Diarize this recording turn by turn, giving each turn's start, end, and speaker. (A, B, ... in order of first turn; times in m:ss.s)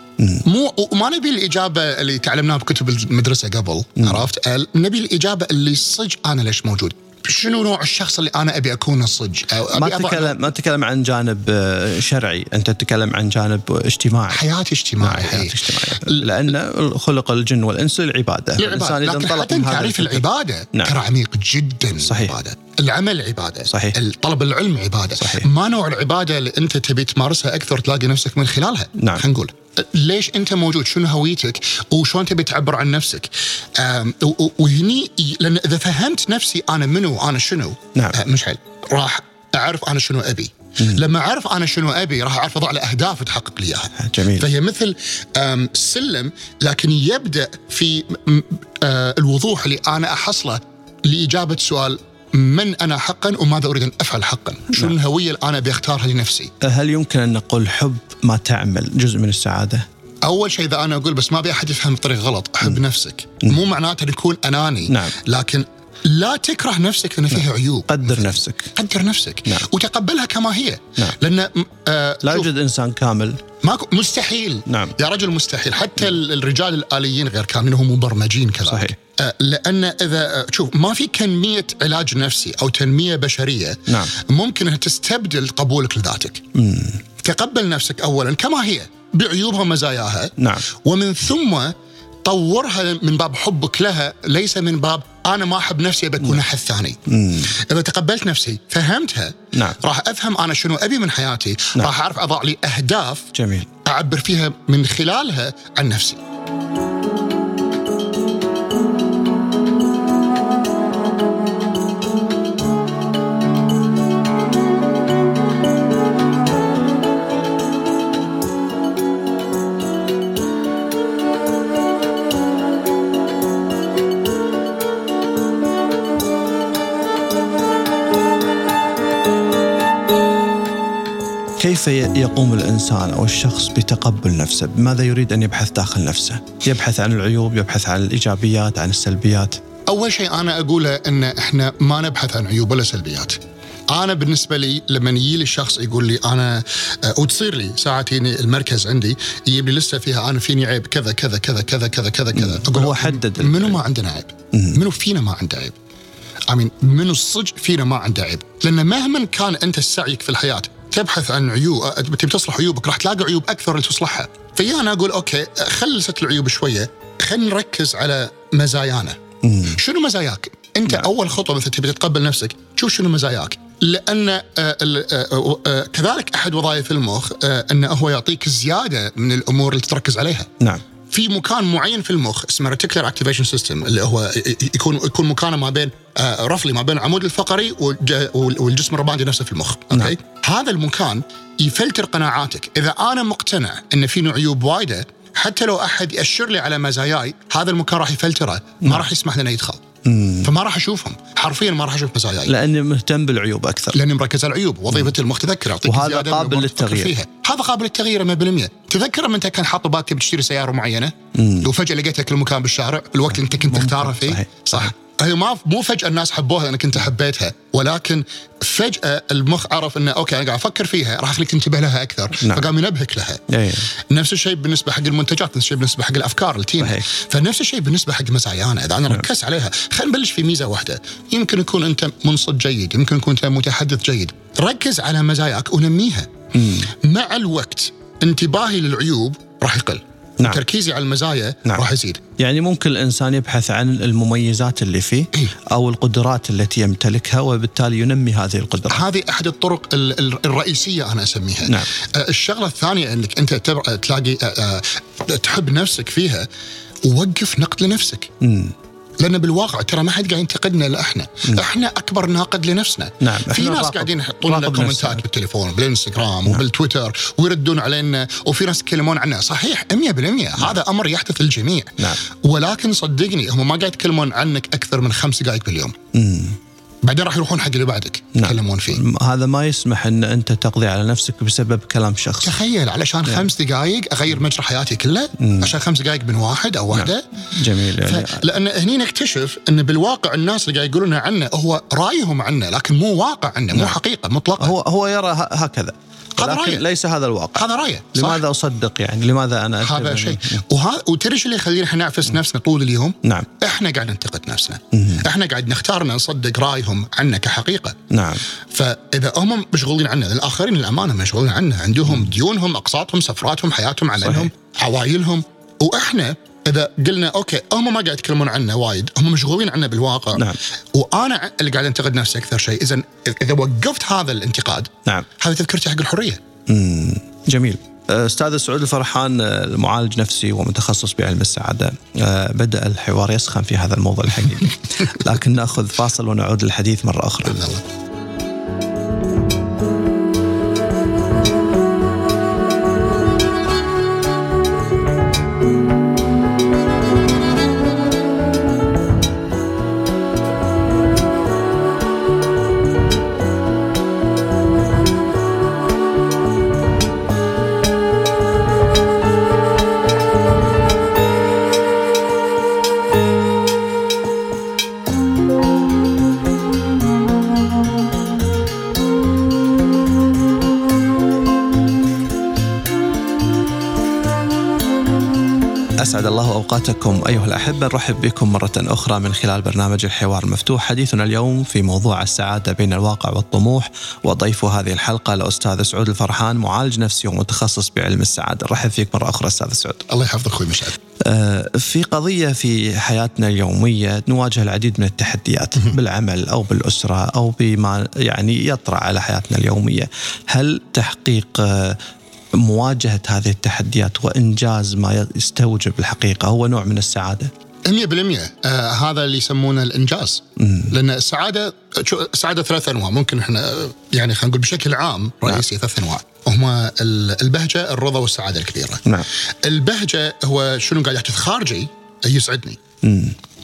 0:00.2-0:00.4 A
0:00.4-0:10.4 B
0:04.0-0:04.3 A
0:09.7-0:14.4 A
0:14.3-0:16.4 B
0:15.0-0:21.0 A
0:18.6-0:56.5 B
0:22.0-0:22.4 A
0:23.7-0:24.0 A
0:25.2-0:25.5 A
0:29.0-0:29.2 A
0:37.9-0:38.2 A
0:44.0-0:44.5 A
0:56.6-0:59.8 A
1:00.2-1:12.5 B
1:04.9-1:05.2 A
1:07.9-1:08.7 A
1:12.2-1:13.4 A
1:13.6-1:26.4 B
1:14.7-1:15.0 A
1:18.6-1:19.0 A
1:23.9-1:24.1 A
1:26.5-1:27.0 A
1:27.2-1:31.7 B
1:30.4-1:30.7 A
1:32.2-1:43.3 B
1:37.1-1:37.5 A
1:39.5-1:39.8 A
1:43.3-1:43.7 A
1:43.8-1:46.2 B
2:11.6-2:19.6 A
2:19.9-2:23.4 B
2:23.9-2:35.7 B
2:32.3-2:33.8 A
2:34.5-2:34.8 A
2:36.5-3:00.5 B
2:49.4-2:49.8 A
3:01.1-3:19.8 B
3:20.0-3:20.5 A
3:20.4-3:22.5 B
3:22.4-3:24.0 A
3:23.9-4:02.2 B
3:25.8-3:27.1 A
3:31.3-3:31.7 A
3:33.4-3:34.9 A
3:42.4-3:42.6 A
3:43.5-3:43.9 A
3:46.8-3:47.1 A
3:56.5-3:56.9 A
4:02.4-4:09.0 A
4:08.9-4:16.5 B
4:17.0-4:18.3 B
4:18.4-4:18.7 A
4:19.2-4:36.0 B
4:23.2-4:25.2 A
4:36.1-4:36.6 A
4:37.0-4:39.0 B
4:38.3-4:42.6 A
4:42.4-4:47.2 B
4:45.4-4:45.7 A
4:46.9-4:48.4 A
4:48.0-4:54.7 B
4:54.6-5:00.6 A
4:56.4-4:56.8 B
4:57.6-4:58.4 B
4:59.8-5:08.0 B
5:03.2-5:03.5 A
5:04.9-5:05.2 A
5:08.1-5:08.4 A
5:08.7-5:26.4 B
5:14.2-5:14.5 A
5:26.6-5:37.8 A
5:37.5-5:37.8 B
6:16.0-6:30.1 A
6:30.1-6:31.0 B
6:31.2-6:42.0 A
6:42.5-6:47.5 A
6:47.8-6:59.0 B
6:50.6-6:50.9 A
6:59.6-7:02.8 B
7:03.0-7:03.4 A